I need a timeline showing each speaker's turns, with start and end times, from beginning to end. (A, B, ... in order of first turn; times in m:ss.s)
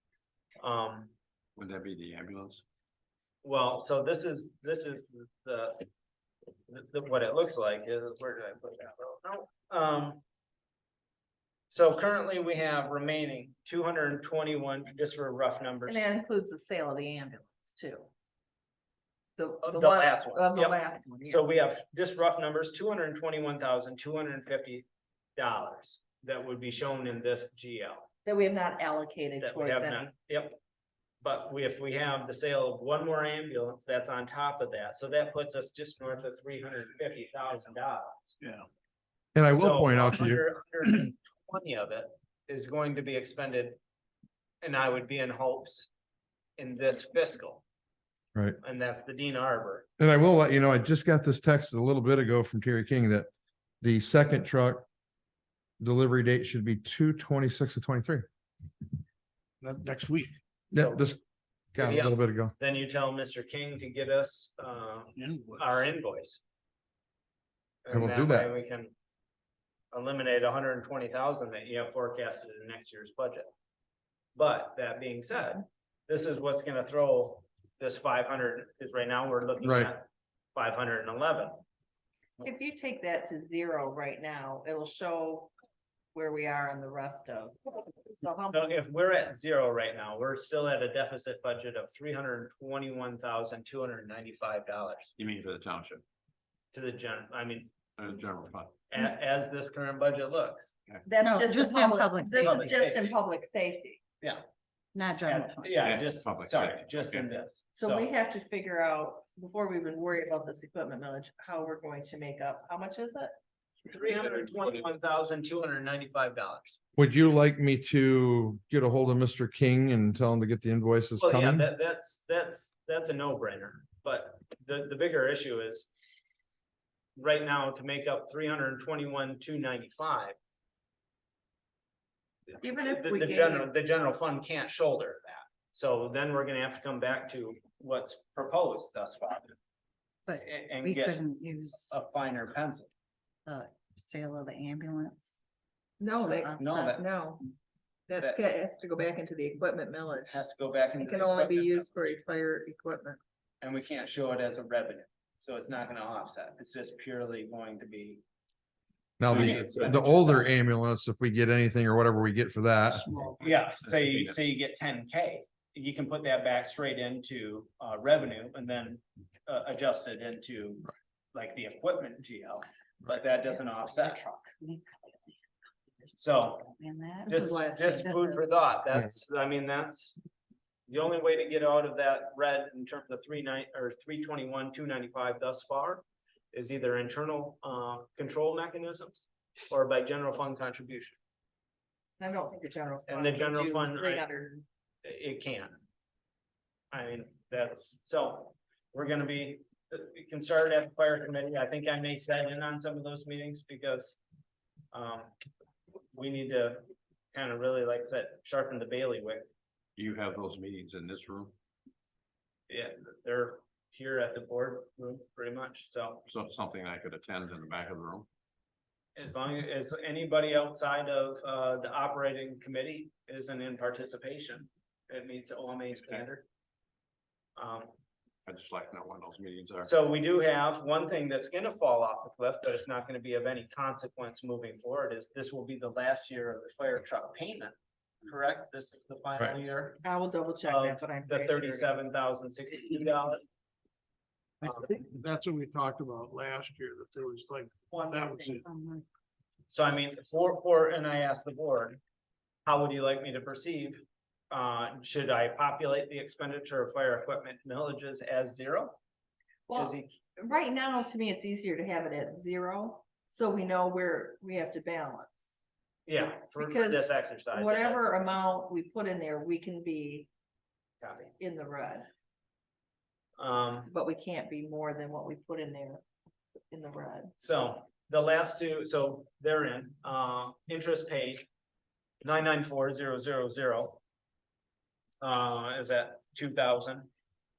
0:00.6-0:01.1 A
0:01.6-0:02.6 B
0:03.4-0:05.9 A
0:06.7-0:10.2 A
0:11.7-0:16.0 A
0:15.9-0:18.1 C
0:19.4-0:21.5 C
0:19.6-0:24.9 A
0:25.4-0:28.1 A
0:28.3-0:30.1 C
0:29.4-0:30.6 A
0:31.2-0:38.2 A
0:38.4-0:38.7 D
0:39.4-0:40.4 E
0:39.5-0:43.8 A
0:44.6-0:45.9 A
0:46.6-0:47.6 A
0:48.6-0:49.9 A
0:50.0-0:53.3 E
0:53.8-0:54.8 E
0:55.8-0:58.3 E
0:59.6-1:00.4 D
1:00.7-1:01.2 E
1:00.7-1:01.0 A
1:01.7-1:02.5 E
1:01.8-1:06.4 A
1:05.2-1:05.6 D
1:07.8-1:08.9 A
1:07.9-1:08.5 E
1:09.9-1:13.5 A
1:14.4-1:21.6 A
1:19.6-1:19.9 E
1:22.4-1:25.5 C
1:26.1-1:28.7 C
1:28.5-1:35.1 A
1:35.2-1:36.0 B
1:36.7-1:37.7 A
1:38.0-1:38.7 B
1:38.9-1:40.7 A
1:41.0-1:44.0 C
1:41.2-1:42.8 F
1:42.4-1:43.2 A
1:45.0-1:45.8 F
1:45.2-1:48.1 A
1:45.8-1:47.3 B
1:47.8-1:53.3 C
1:53.9-1:56.8 A
1:57.0-2:01.6 E
2:01.2-2:05.9 A
2:07.2-2:10.4 A
2:12.5-2:19.6 A
2:12.6-2:13.7 C
2:20.3-2:22.0 F
2:20.3-2:21.2 A
2:21.9-2:22.9 A
2:23.5-2:25.4 F
2:26.0-2:27.5 C
2:26.2-2:27.0 F
2:26.6-2:27.1 A
2:28.1-2:30.3 C
2:28.1-2:28.6 A
2:30.3-2:32.1 A
2:31.0-2:33.2 C
2:33.6-2:38.2 A
2:39.2-2:43.1 E
2:39.3-2:40.1 B
2:39.3-2:40.4 A
2:42.9-2:43.6 D
2:43.4-2:44.6 B
2:43.4-2:54.5 A
2:53.2-2:55.4 F
2:56.2-3:00.2 A
2:56.7-2:58.6 F
3:00.9-3:11.2 A
3:12.2-3:14.6 C
3:13.1-3:14.3 A
3:15.0-3:15.8 A
3:16.9-3:24.2 A
3:24.9-3:25.3 A
3:26.1-3:29.5 A
3:30.0-3:31.5 B
3:32.7-3:36.3 A
3:36.3-3:38.3 B
3:39.2-3:46.4 A
3:47.6-3:47.9 A
3:48.5-3:49.9 B
3:49.8-4:00.0 A
4:00.0-4:02.0 C
4:00.6-4:03.4 A
4:04.6-4:08.6 D
4:07.9-4:08.4 C
4:08.6-4:09.0 F
4:09.7-4:12.0 A
4:12.7-4:19.0 A
4:19.7-4:25.4 C
4:19.7-4:20.1 A
4:26.1-4:28.1 A
4:26.6-4:30.3 C
4:31.0-4:31.3 A
4:31.4-4:32.1 C
4:33.4-4:33.9 A
4:33.9-4:36.0 C
4:36.7-4:37.3 C
4:37.4-4:41.5 A
4:42.2-4:44.0 A
4:45.2-4:47.1 A